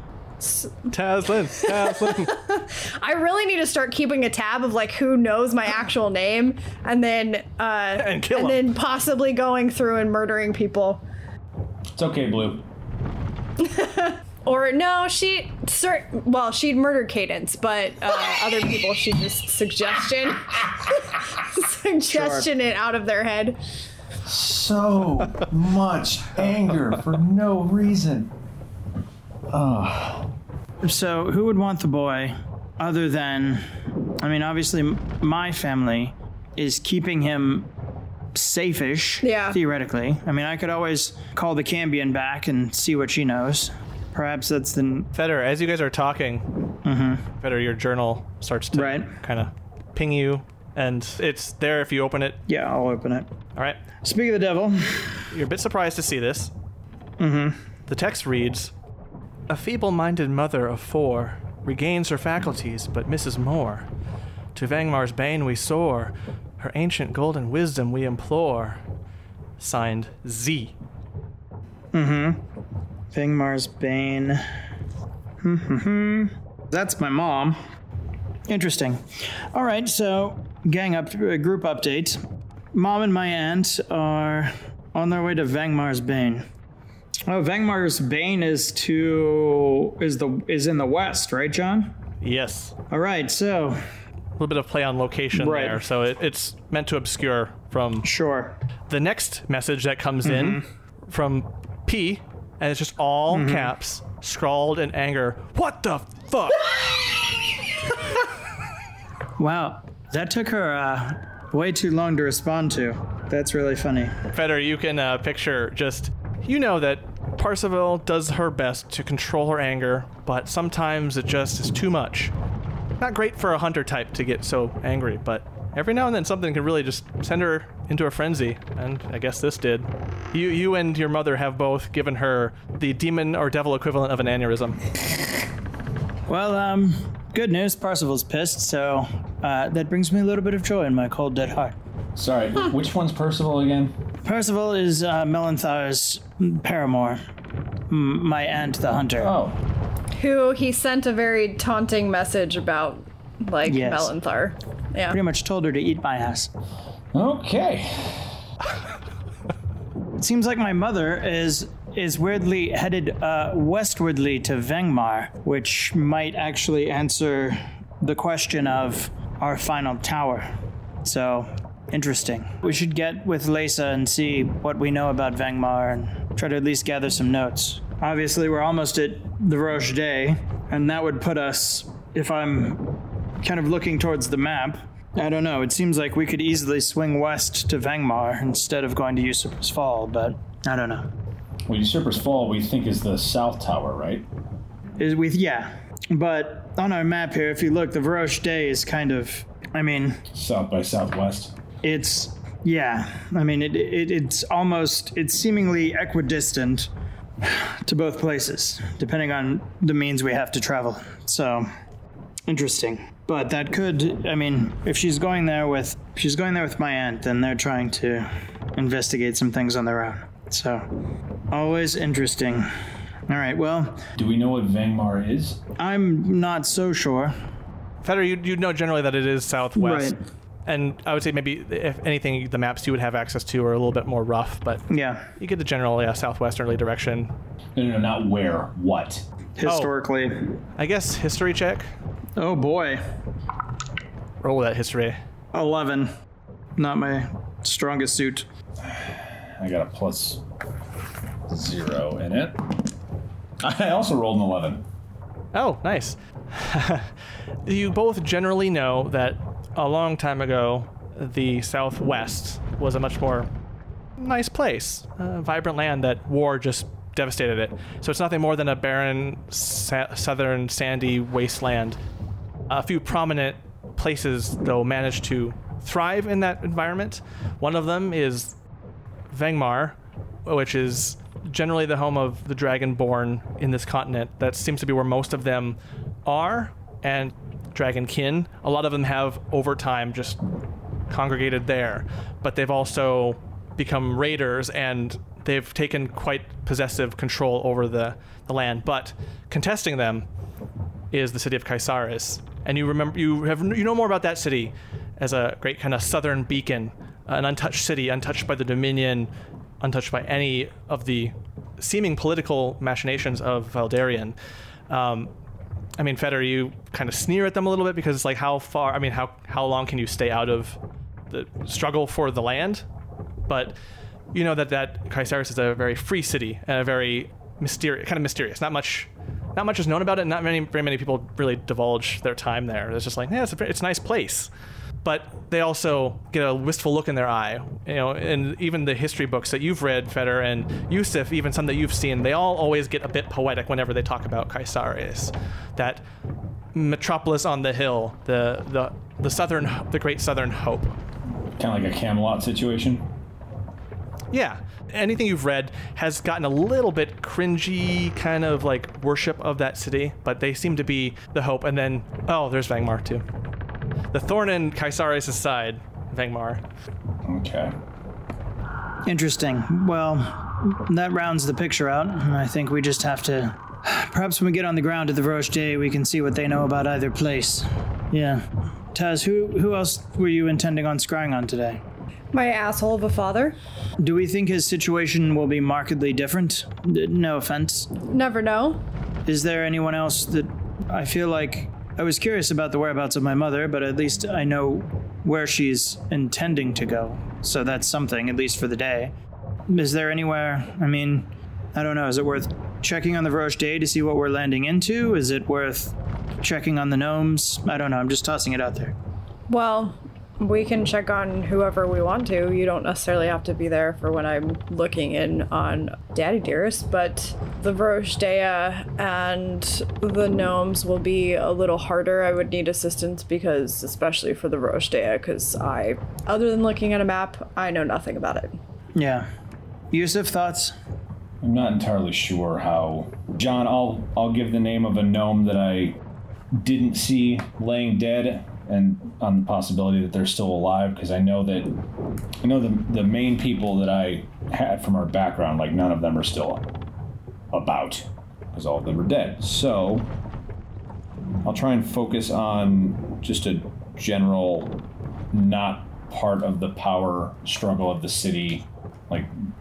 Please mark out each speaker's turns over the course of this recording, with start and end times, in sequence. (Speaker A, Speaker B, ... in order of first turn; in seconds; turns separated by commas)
Speaker A: 0.4-0.9, Speaker B: 0.9-2.3, Speaker A: 1.5-11.0, Speaker B: 8.0-8.6, Speaker C: 11.9-12.7, Speaker A: 13.6-23.6, Speaker D: 22.1-22.5, Speaker C: 24.2-28.3, Speaker C: 29.5-30.3, Speaker D: 30.8-33.7, Speaker D: 34.2-37.7, Speaker D: 38.3-45.1, Speaker A: 39.2-39.6, Speaker B: 45.1-46.5, Speaker D: 46.8-47.2, Speaker B: 47.4-52.4, Speaker D: 48.7-49.1, Speaker D: 52.5-53.3, Speaker B: 53.5-53.8, Speaker D: 54.0-55.3, Speaker B: 55.3-56.5, Speaker D: 57.2-57.6, Speaker B: 57.9-58.7, Speaker B: 59.5-63.9, Speaker B: 64.5-68.8, Speaker B: 69.6-70.7, Speaker D: 71.9-72.4, Speaker D: 73.1-74.4, Speaker D: 75.4-77.6, Speaker D: 78.5-82.2, Speaker D: 82.7-86.5, Speaker D: 87.2-92.0, Speaker B: 92.2-92.7, Speaker D: 92.9-93.8, Speaker B: 94.4-98.1, Speaker D: 95.3-95.8, Speaker D: 98.0-98.6, Speaker B: 98.9-106.8, Speaker D: 100.2-100.6, Speaker D: 103.3-103.7, Speaker D: 109.4-114.2, Speaker B: 114.3-122.3, Speaker B: 123.0-134.8, Speaker D: 136.3-141.8, Speaker C: 142.2-144.0, Speaker D: 144.2-147.2, Speaker D: 147.9-149.3, Speaker C: 149.2-149.6, Speaker A: 150.1-155.2, Speaker D: 153.6-154.1, Speaker D: 155.1-156.5, Speaker C: 157.1-158.4, Speaker D: 160.2-170.5, Speaker D: 171.0-182.8, Speaker D: 183.4-191.1, Speaker C: 191.7-194.3, Speaker D: 195.0-200.2, Speaker C: 200.3-201.6, Speaker D: 201.8-206.9, Speaker D: 207.4-211.7, Speaker D: 212.5-220.9, Speaker D: 221.5-222.7, Speaker D: 223.3-224.0, Speaker C: 224.2-225.6, Speaker D: 225.8-227.3, Speaker B: 228.0-230.1, Speaker D: 229.8-230.2, Speaker B: 230.7-234.8, Speaker D: 234.9-235.3, Speaker B: 235.4-237.3, Speaker C: 237.8-239.2, Speaker D: 239.6-240.6, Speaker B: 239.6-239.9, Speaker B: 240.7-241.9, Speaker D: 242.4-243.0, Speaker B: 244.4-245.2, Speaker D: 245.5-246.1, Speaker D: 246.8-248.4, Speaker C: 248.8-250.4, Speaker C: 251.5-252.9, Speaker C: 253.6-254.8, Speaker B: 255.5-257.1, Speaker B: 257.6-263.5, Speaker B: 264.2-272.0, Speaker B: 272.7-278.6, Speaker B: 279.3-290.4, Speaker B: 291.1-300.2, Speaker B: 301.1-314.4, Speaker B: 314.9-315.3, Speaker B: 316.0-320.8, Speaker B: 321.3-322.8, Speaker B: 323.5-323.8, Speaker B: 324.3-334.5, Speaker B: 335.0-346.0, Speaker B: 346.7-350.9, Speaker C: 351.6-353.1, Speaker B: 354.3-363.2, Speaker B: 364.1-366.6, Speaker C: 367.2-367.7, Speaker D: 369.1-381.8, Speaker A: 382.3-383.5, Speaker D: 384.0-387.9, Speaker A: 388.1-388.8, Speaker D: 389.2-399.1, Speaker D: 399.7-408.9, Speaker A: 409.5-428.6, Speaker D: 428.9-429.3, Speaker D: 429.9-430.7, Speaker C: 431.4-436.0, Speaker C: 436.5-441.7, Speaker C: 442.4-446.6, Speaker C: 447.5-450.1, Speaker C: 451.4-454.8, Speaker C: 455.3-459.3